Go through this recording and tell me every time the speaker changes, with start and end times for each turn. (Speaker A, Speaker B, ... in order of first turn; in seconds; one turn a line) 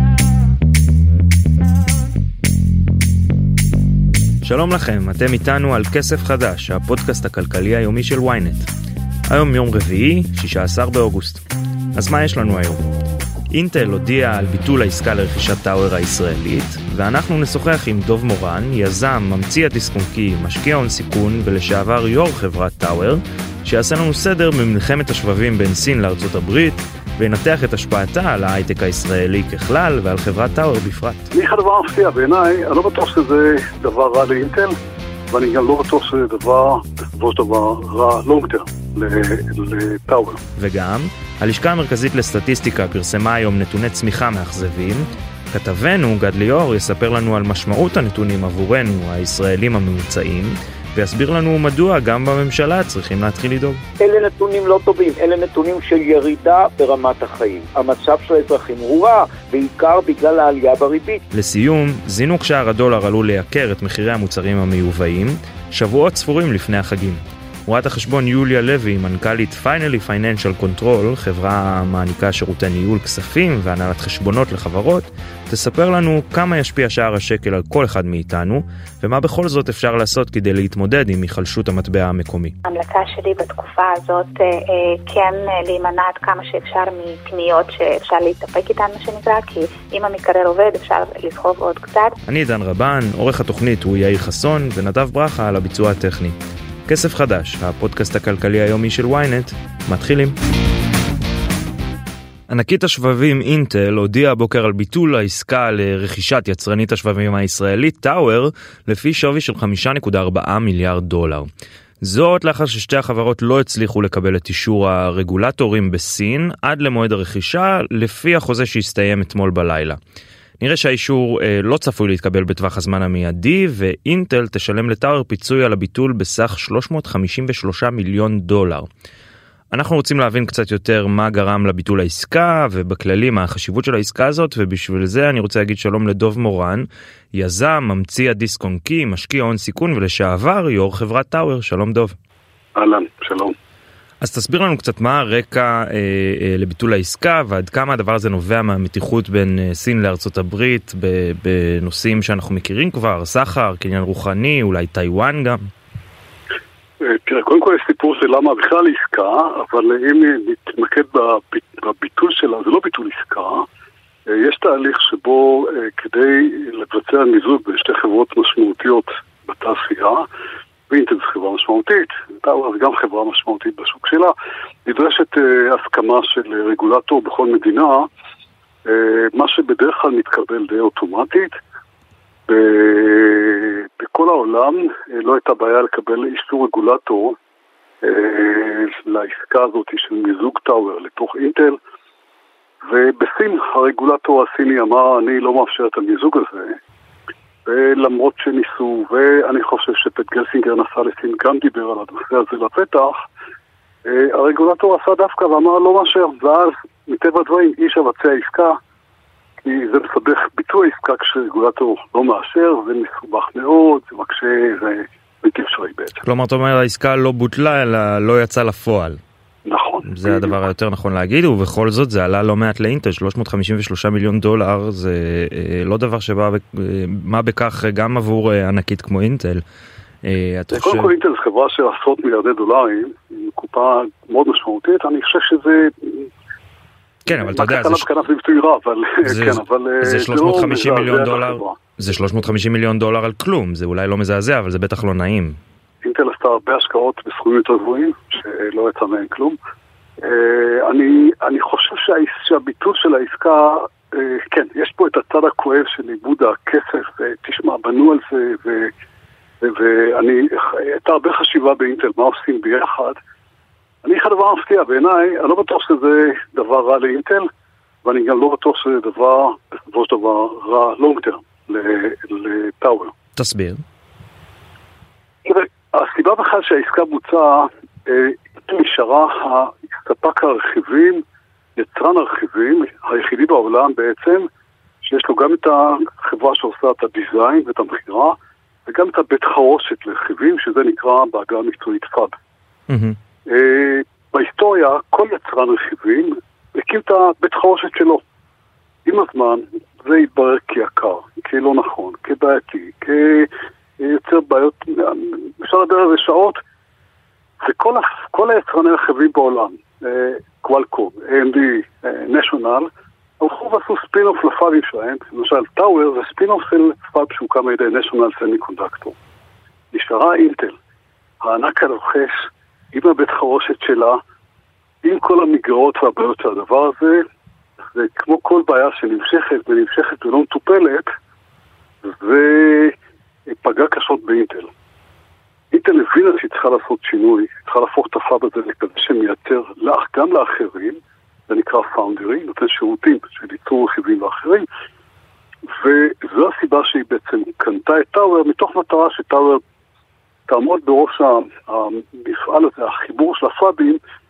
Speaker A: 4.4-8.7
Speaker A: 9.3-11.4
Speaker A: 11.9-12.8
Speaker A: 13.5-31.3
Speaker B: 31.3-34.7
Speaker B: 35.3-40.4
Speaker A: 40.6-53.8
Speaker C: 54.0-61.2
Speaker A: 61.3-82.5
Speaker D: 82.7-92.2
Speaker A: 92.3-96.4
Speaker A: 96.9-100.3
Speaker A: 102.5-111.5
Speaker A: 112.0-120.0
Speaker A: 120.6-128.9
Speaker A: 129.7-142.2
Speaker B: 142.8-143.5
Speaker A: 144.2-155.6
Speaker B: 157.0-163.7
Speaker B: 164.3-170.2
Speaker B: 170.9-174.3
Speaker B: 174.8-178.1
Speaker B: 178.8-181.5
Speaker B: 182.5-187.4
Speaker B: 188.0-191.8
Speaker B: 192.9-196.8
Speaker B: 197.7-203.2
Speaker B: 204.1-208.8
Speaker B: 209.6-216.2
Speaker A: 216.2-219.2
Speaker B: 219.7-220.6
Speaker A: 220.1-229.6
Speaker A: 230.2-231.1
Speaker B: 230.7-236.3
Speaker A: 237.2-238.1
Speaker B: 237.3-241.8
Speaker A: 239.2-245.6
Speaker B: 246.0-249.6
Speaker B: 250.2-258.9
Speaker B: 259.6-263.2
Speaker B: 264.0-267.4
Speaker B: 268.0-273.1
Speaker A: 273.4-273.8
Speaker B: 275.4-281.2
Speaker B: 281.8-284.5
Speaker B: 285.0-292.3
Speaker A: 292.9-293.2
Speaker B: 293.4-298.2
Speaker B: 299.1-306.6
Speaker B: 307.6-319.2
Speaker B: 319.9-320.8
Speaker B: 321.4-324.2
Speaker B: 325.0-327.2
Speaker B: 327.9-331.1
Speaker B: 332.0-332.9
Speaker B: 333.5-334.7
Speaker B: 335.7-344.7
Speaker B: 345.7-349.6
Speaker B: 350.5-354.0